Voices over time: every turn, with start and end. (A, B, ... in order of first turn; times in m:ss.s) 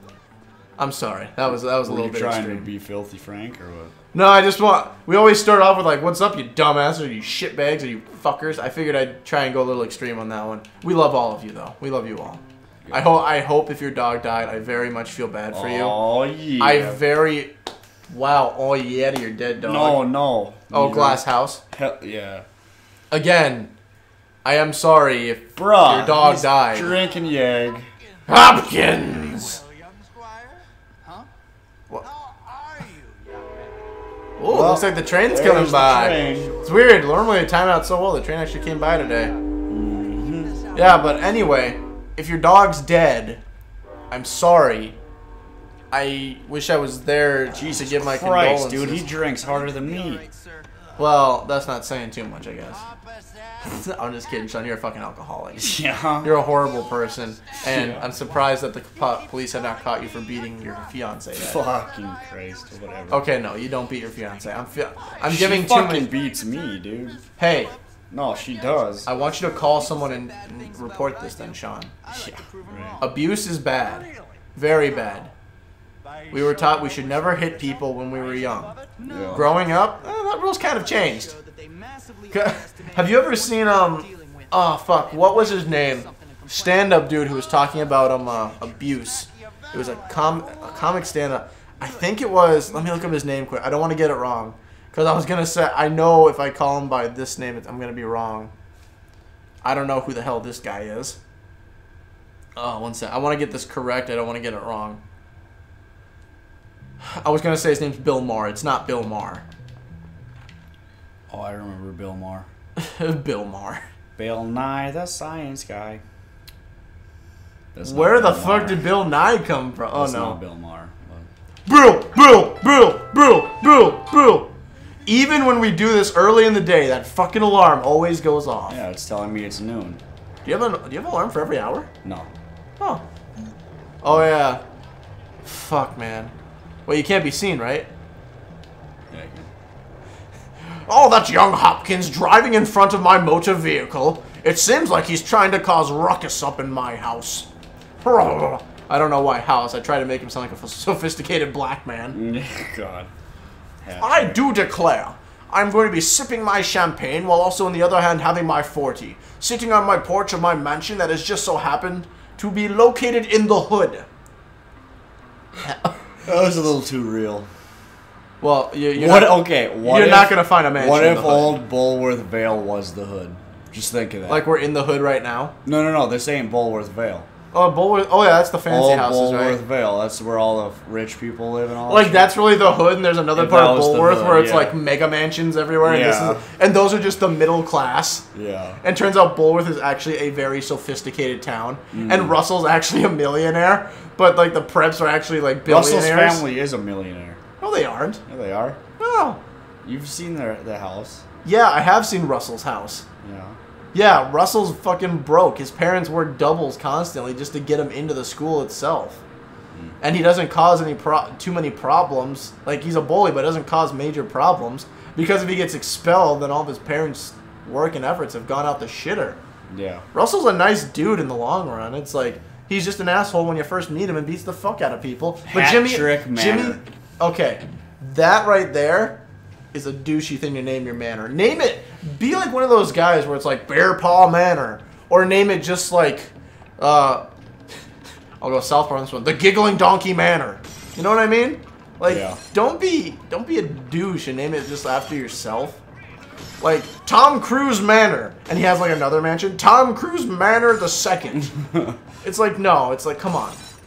0:00.8-0:02.7 A
0:01.5-0:03.9 B
0:04.1-0:16.0 A
0:15.5-0:17.0 B
0:16.6-0:17.5 A
0:18.1-0:20.0 A
0:19.6-0:21.2 B
0:20.7-0:21.6 A
0:21.7-0:22.4 B
0:23.1-0:23.7 A
0:24.4-0:27.0 A
0:25.6-0:27.9 B
0:28.3-0:29.6 A
0:29.2-0:31.3 C
0:32.0-0:33.8 C
0:34.4-0:39.3 A
0:34.5-0:36.6 B
0:35.9-0:36.6 C
0:39.7-0:40.7 B
0:40.7-0:43.4 A
0:44.1-0:45.0 A
0:45.9-0:49.1 A
0:47.5-0:50.2 B
0:49.4-0:51.0 C
0:51.0-0:52.8 A
0:52.7-0:53.8 C
0:53.6-1:01.6 A
0:55.6-0:56.3 B
0:57.6-0:58.0 B
0:57.9-0:58.3 C
0:59.4-0:59.7 C
1:01.4-1:03.2 B
1:01.6-1:03.2 C
1:03.1-1:06.1 A
1:04.6-1:05.1 C
1:05.2-1:07.2 B
1:07.4-1:07.7 A
1:08.1-1:09.1 B
1:09.0-1:12.0 A
1:09.0-1:13.2 C
1:12.1-1:13.0 B
1:13.0-1:15.3 A
1:13.7-1:14.4 C
1:16.0-1:19.6 C
1:16.3-1:18.7 A
1:19.0-1:19.5 B
1:19.3-1:21.3 A
1:20.7-1:31.0 C
1:22.3-1:38.5 A
1:39.6-1:41.2 A
1:42.6-1:45.0 A
1:47.0-1:49.4 A
1:51.3-1:52.5 B
1:52.8-1:53.8 A
1:54.2-1:56.0 B
1:57.7-1:58.9 B
1:57.8-2:00.4 A
1:59.9-2:01.3 B
2:01.7-2:04.5 A
2:05.0-2:08.8 A
2:08.7-2:10.0 B
2:10.4-2:11.9 A
2:12.0-2:12.3 B
2:12.8-2:13.0 A
2:14.0-2:14.6 A
2:15.4-2:16.3 A
2:16.8-2:17.9 A
2:19.1-2:19.5 B
2:20.6-2:27.5 A
2:28.0-2:32.2 A
2:32.1-2:33.1 B
2:33.8-2:34.4 B
2:34.0-2:44.1 A
2:45.6-2:45.9 A
2:46.2-2:47.5 B
2:48.4-2:51.6 A
2:48.9-2:54.4 B
2:54.3-2:55.5 A
2:55.6-2:57.3 B
2:57.5-2:59.6 A
2:58.7-3:02.3 B
3:01.8-3:08.2 A
3:03.3-3:04.8 B
3:05.8-3:06.4 B
3:08.3-3:08.8 B
3:08.8-3:16.4 A
3:11.9-3:12.4 B
3:15.6-3:17.4 B
3:17.6-3:18.2 A
3:18.3-3:18.8 B
3:19.0-3:19.4 A
3:19.8-3:21.2 B
3:21.4-3:23.0 A
3:23.2-3:23.6 B
3:23.9-3:29.2 A
3:30.0-3:39.4 A
3:39.7-3:40.0 B
3:40.1-3:49.2 A
3:45.4-3:46.8 B
3:49.7-3:57.2 A
3:58.4-4:05.8 A
4:02.0-4:02.4 B
4:06.6-4:11.5 A
4:11.6-4:12.0 B
4:12.2-4:13.6 A